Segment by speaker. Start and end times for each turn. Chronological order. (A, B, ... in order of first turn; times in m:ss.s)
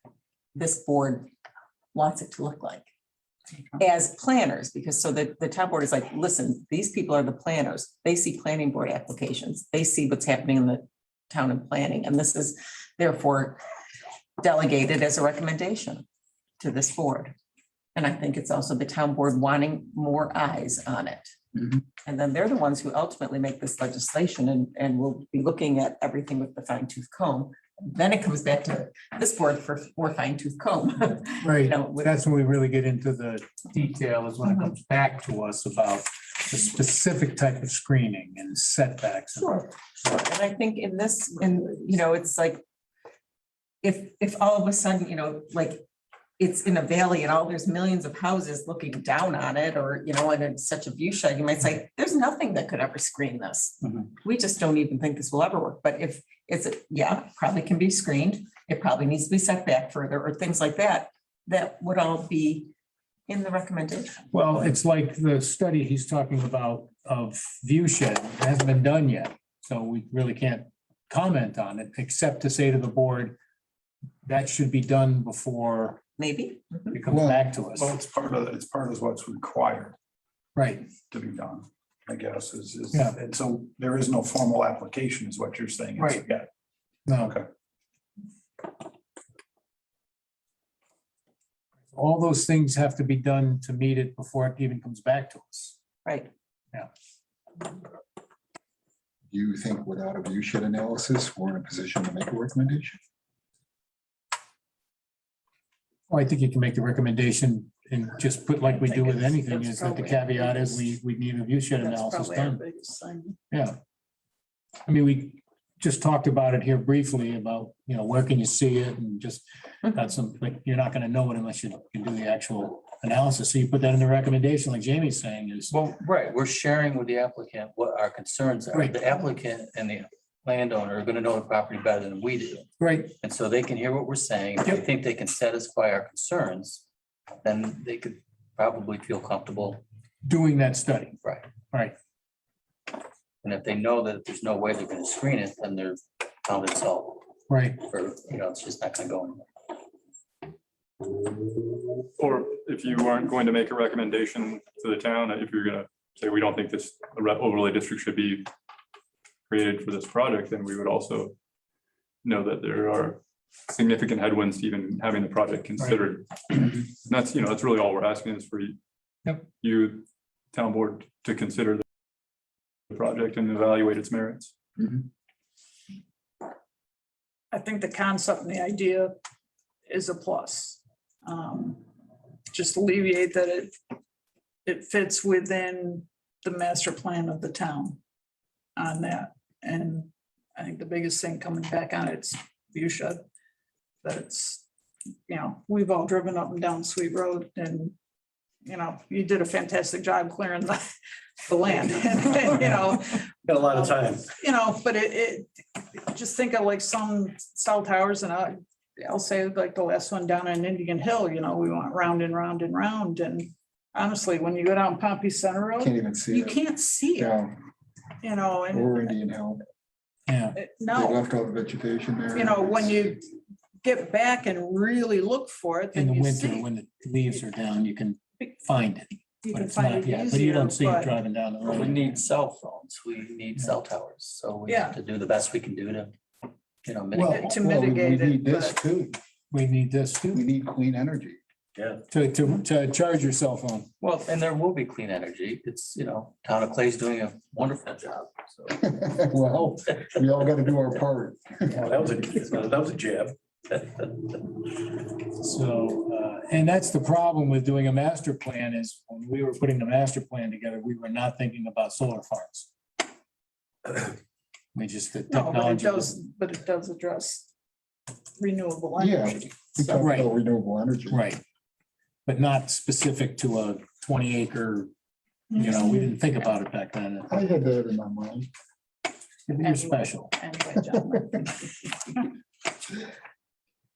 0:00.6-0:01.3 A
0:01.9-0:02.9 A
0:03.8-0:13.6 A
0:14.4-0:16.0 A
0:16.6-0:17.4 A
0:18.0-0:21.3 A
0:22.0-0:32.2 A
0:31.4-0:39.6 B
0:34.4-0:34.7 A
0:39.4-0:42.6 A
0:43.8-0:45.8 A
0:46.4-1:02.7 A
1:03.3-1:04.4 A
1:04.3-1:13.4 B
1:14.2-1:16.0 B
1:16.2-1:17.0 A
1:16.9-1:17.9 B
1:17.1-1:17.4 C
1:17.8-1:20.0 D
1:20.6-1:20.9 B
1:20.9-1:26.5 D
1:26.0-1:26.2 B
1:27.1-1:27.4 B
1:27.2-1:27.5 D
1:31.9-1:35.8 B
1:36.0-1:36.3 A
1:39.3-1:43.0 C
1:46.1-1:52.6 B
1:49.8-1:50.8 E
1:51.8-1:53.4 E
1:53.5-1:53.8 B
1:54.9-2:05.8 B
2:05.7-2:16.8 F
2:08.7-2:09.0 B
2:12.8-2:13.1 B
2:17.4-2:19.8 F
2:20.2-2:21.2 B
2:21.2-2:21.5 F
2:23.4-2:27.3 F
2:27.5-2:27.8 B
2:27.8-2:29.5 F
2:32.2-2:38.5 G
2:39.5-2:41.4 G
2:42.2-2:48.8 G
2:49.6-2:51.8 G
2:52.9-2:54.5 G
2:57.5-2:59.2 E
2:59.9-3:01.9 E
3:02.5-3:03.7 E
3:04.6-3:08.0 E
3:08.8-3:13.2 E
3:14.0-3:14.6 E
3:15.3-3:18.0 E
3:18.6-3:37.4 E
3:23.6-3:24.2 H
3:35.8-3:36.6 C
3:37.2-3:37.6 C
3:38.2-3:39.1 E
3:38.7-3:39.6 C
3:40.3-3:40.6 B
3:40.6-3:41.2 E
3:40.9-3:43.2 C
3:42.3-3:43.2 E
3:43.8-3:46.6 E
3:45.9-3:52.1 B
3:49.4-3:51.1 E
3:51.6-3:56.1 F
3:54.7-3:55.0 E
3:56.8-3:57.6 F
3:57.2-3:59.2 C
3:57.2-3:58.8 E
3:59.5-4:00.5 B
4:00.3-4:01.4 C
4:02.1-4:03.9 B
4:04.0-4:08.8 F
4:08.8-4:12.0 C
4:11.8-4:13.4 H
4:13.8-4:14.2 F
4:15.3-4:22.7 B
4:24.8-4:26.2 B
4:25.3-4:27.5 E
4:28.4-4:30.0 E
4:29.0-4:31.2 C
4:30.0-4:30.3 B
4:31.1-4:31.4 B
4:32.3-4:34.9 B
4:35.5-4:36.1 E
4:35.6-4:37.3 B
4:37.3-4:38.5 C
4:39.5-4:40.3 B
4:39.6-4:42.2 E